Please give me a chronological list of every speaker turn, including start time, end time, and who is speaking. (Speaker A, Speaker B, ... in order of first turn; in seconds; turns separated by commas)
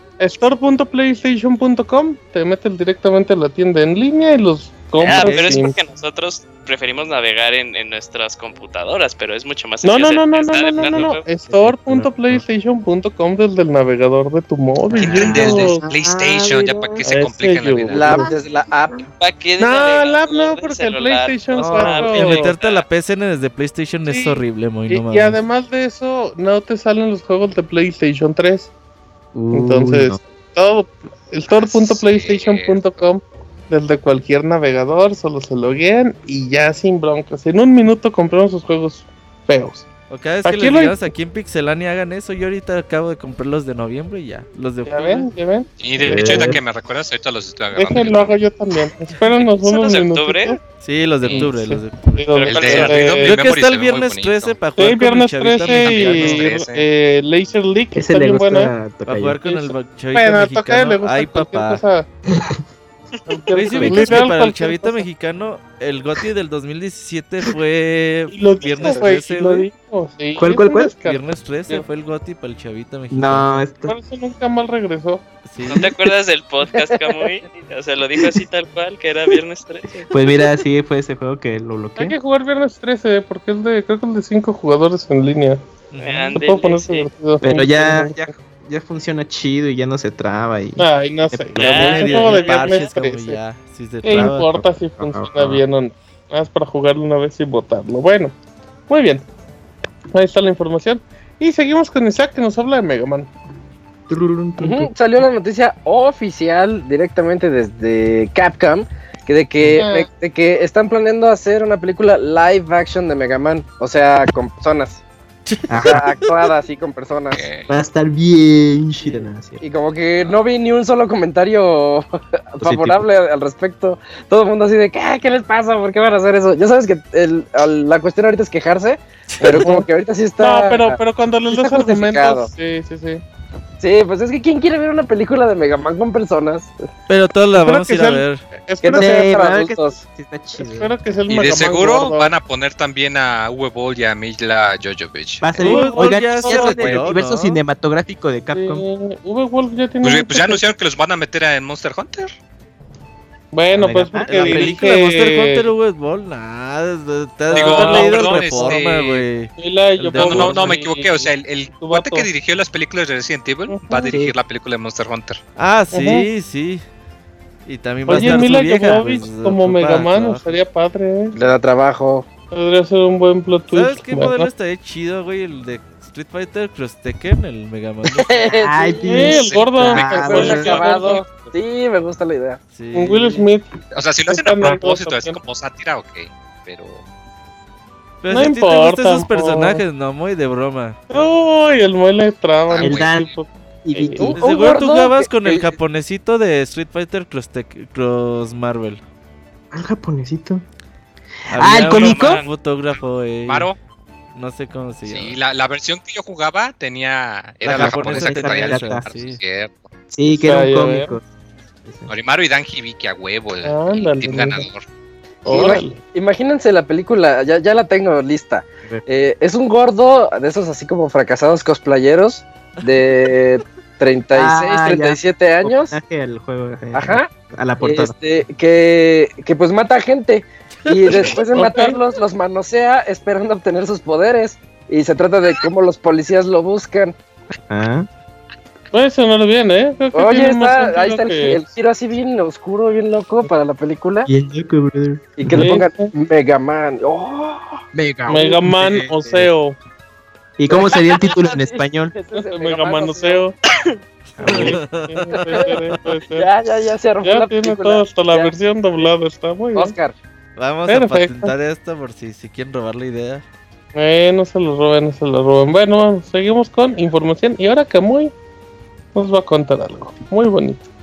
Speaker A: 0.2-5.8, Speaker B: 5.0-11.2, Speaker C: 5.2-5.7, Speaker A: 9.8-15.8, Speaker D: 11.5-12.4, Speaker D: 14.9-17.0, Speaker E: 15.0-18.3, Speaker F: 15.2-15.5, Speaker A: 17.0-18.3, Speaker F: 17.9-19.1, Speaker B: 19.2-22.8, Speaker A: 19.6-22.5, Speaker D: 21.6-22.0, Speaker C: 21.6-25.4, Speaker A: 24.1-28.7, Speaker D: 29.3-30.2, Speaker A: 29.5-39.9, Speaker E: 31.6-33.0, Speaker C: 40.1-45.3, Speaker A: 40.4-41.0, Speaker A: 44.9-46.6, Speaker E: 45.8-48.3, Speaker D: 46.0-46.6, Speaker A: 47.7-50.6, Speaker B: 49.3-50.6, Speaker C: 50.8-52.3, Speaker A: 51.3-53.4, Speaker B: 52.3-53.2, Speaker E: 52.5-54.6, Speaker C: 53.2-56.5, Speaker A: 54.8-58.7, Speaker E: 55.5-56.8, Speaker D: 57.9-59.4, Speaker C: 59.1-61.8, Speaker A: 59.4-62.1, Speaker A: 63.3-65.0, Speaker C: 63.5-69.7, Speaker D: 63.8-64.1, Speaker A: 68.3-71.8, Speaker D: 70.3-70.9, Speaker C: 71.0-73.7, Speaker D: 73.1-74.0, Speaker A: 73.9-75.2, Speaker C: 75.5-75.9, Speaker B: 75.7-80.1, Speaker F: 76.8-77.3, Speaker D: 80.1-82.2, Speaker A: 82.0-85.6, Speaker C: 85.9-86.4, Speaker B: 86.0-87.1, Speaker A: 86.2-88.3, Speaker D: 87.4-92.0, Speaker A: 90.8-93.4, Speaker B: 91.6-92.8, Speaker C: 91.6-94.5, Speaker A: 94.0-98.3, Speaker D: 94.1-95.6, Speaker A: 98.9-99.2, Speaker A: 100.1-103.3, Speaker D: 104.1-104.9, Speaker F: 104.6-115.0, Speaker A: 109.8-110.1, Speaker C: 115.5-116.2, Speaker D: 115.7-116.0, Speaker F: 115.8-117.5, Speaker E: 117.3-117.7, Speaker D: 117.7-119.6, Speaker F: 119.0-132.5, Speaker D: 122.6-123.0, Speaker C: 129.3-129.7, Speaker A: 129.5-129.9, Speaker A: 130.4-133.2, Speaker F: 133.8-136.7, Speaker C: 137.1-138.4, Speaker A: 137.5-139.3, Speaker F: 138.8-140.0, Speaker D: 138.9-140.9, Speaker A: 140.6-142.3, Speaker E: 141.3-145.7, Speaker D: 145.4-148.8, Speaker C: 145.6-147.6, Speaker A: 145.7-146.9, Speaker A: 148.5-150.6, Speaker E: 150.0-152.3, Speaker A: 153.5-155.7, Speaker D: 153.7-154.7, Speaker C: 154.2-160.7, Speaker A: 157.5-158.8, Speaker E: 157.5-159.3, Speaker A: 159.6-162.3, Speaker E: 160.1-165.4, Speaker D: 160.2-160.7, Speaker A: 163.7-164.1, Speaker D: 164.1-164.3, Speaker C: 165.6-166.8, Speaker A: 165.9-166.3, Speaker C: 167.7-170.6, Speaker A: 168.1-171.4, Speaker F: 171.3-172.2, Speaker A: 172.5-174.5, Speaker C: 173.7-178.4, Speaker F: 178.1-182.6, Speaker D: 178.6-180.8, Speaker A: 179.0-181.2, Speaker E: 179.3-180.9, Speaker C: 182.7-183.5, Speaker A: 182.9-183.7, Speaker E: 183.9-187.0, Speaker A: 184.3-185.4, Speaker C: 188.2-191.0, Speaker A: 188.3-189.8, Speaker A: 191.1-194.4, Speaker E: 192.7-193.3, Speaker D: 192.8-193.3, Speaker D: 193.8-194.4, Speaker C: 194.3-199.0, Speaker F: 194.4-195.7, Speaker D: 199.7-200.6, Speaker C: 201.5-203.7, Speaker D: 201.5-202.4, Speaker B: 201.8-202.5, Speaker E: 203.5-203.8, Speaker C: 204.3-205.3, Speaker E: 205.0-209.9, Speaker C: 207.6-209.4, Speaker D: 207.7-209.1, Speaker D: 210.1-211.2, Speaker A: 210.4-211.2, Speaker D: 211.8-212.1, Speaker E: 212.1-214.8, Speaker A: 213.6-214.7, Speaker A: 215.4-216.0, Speaker F: 215.5-225.9, Speaker D: 224.3-228.2, Speaker F: 226.9-227.3, Speaker F: 227.8-237.1, Speaker A: 231.1-232.0, Speaker D: 237.5-238.1, Speaker A: 238.9-241.6, Speaker F: 240.1-244.3, Speaker D: 244.2-245.8, Speaker F: 245.4-247.8, Speaker A: 245.5-246.1, Speaker D: 247.9-249.5, Speaker A: 248.3-249.8, Speaker D: 250.6-252.1, Speaker F: 250.7-253.5, Speaker A: 252.3-253.5, Speaker C: 254.4-255.8, Speaker A: 254.4-256.5, Speaker F: 254.4-254.7, Speaker F: 255.4-255.7, Speaker F: 256.3-259.1, Speaker A: 257.2-259.9, Speaker F: 259.7-260.1, Speaker C: 260.6-263.4, Speaker A: 260.9-261.5, Speaker A: 263.9-268.3, Speaker A: 269.1-270.8